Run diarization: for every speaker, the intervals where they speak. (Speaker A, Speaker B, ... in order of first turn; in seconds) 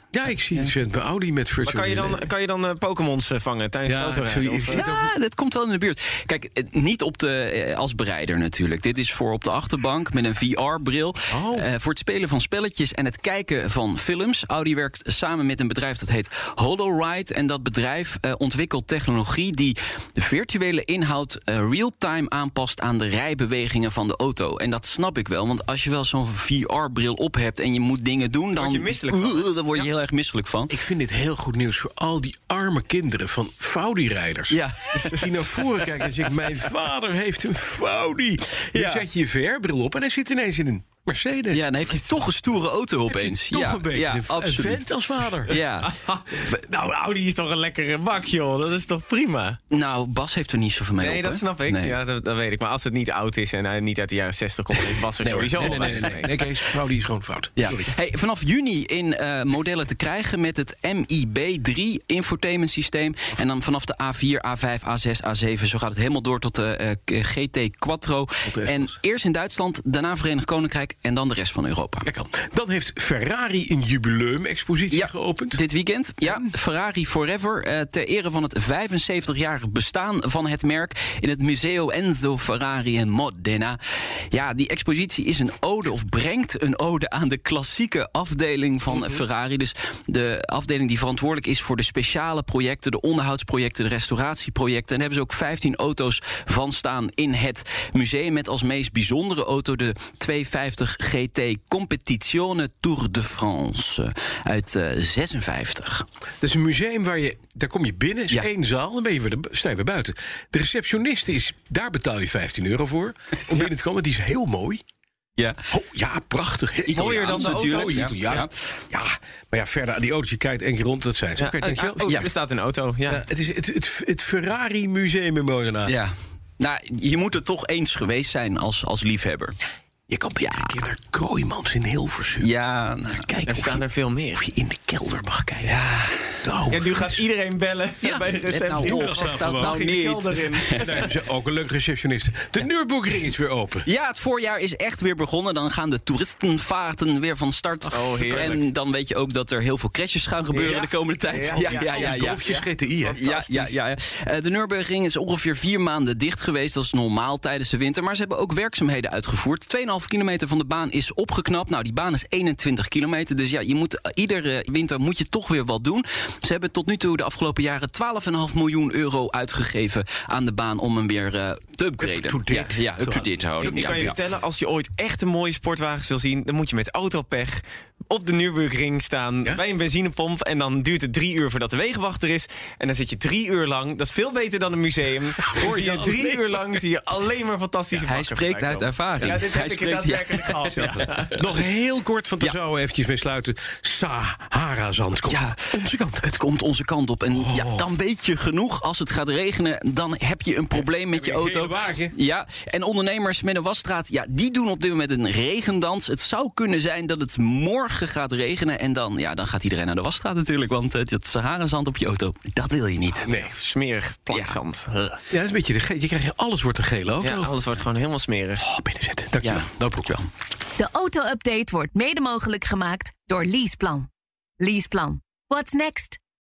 Speaker A: 0.1-2.2, 3.8-5.1, 11.3-11.7, 30.7-41.7, 43.1-45.6, 55.2-57.9, 68.5-68.9, 72.0-75.6, 76.2-76.5, 106.4-114.8, 115.7-122.3, 123.1-126.0, 130.1-132.5, 133.1-135.8, 136.4-137.2, 138.0-139.8, 140.7-143.9, 151.4-153.7, 172.0-173.3, 185.4-186.7, 190.7-196.2, 197.3-197.9, 201.1-202.1, 213.2-213.5, 215.3-217.5, 218.6-220.2
Speaker B: 1.6-4.8, 28.5-29.9, 41.9-42.3, 45.5-49.6, 51.0-56.4, 88.9-89.2, 116.9-118.4, 121.4-123.2, 133.4-134.4, 136.7-141.0, 147.9-148.6, 150.5-153.3, 173.6-191.4, 213.3-215.2, 217.2-218.6
Speaker C: 4.7-30.8, 34.5-36.1, 38.6-39.0, 41.5-44.8, 45.5-45.9, 49.7-52.0, 55.2-56.3, 57.6-72.1, 74.9-83.8, 84.3-106.0, 115.4-115.6, 116.8-118.5, 125.8-129.6, 130.4-130.8, 132.4-133.3, 135.6-136.3, 138.6-141.1, 143.8-152.4, 153.1-174.2, 188.0-191.3, 195.3-213.3, 214.3-214.6, 219.4-220.3
Speaker D: 220.8-224.1, 224.6-226.2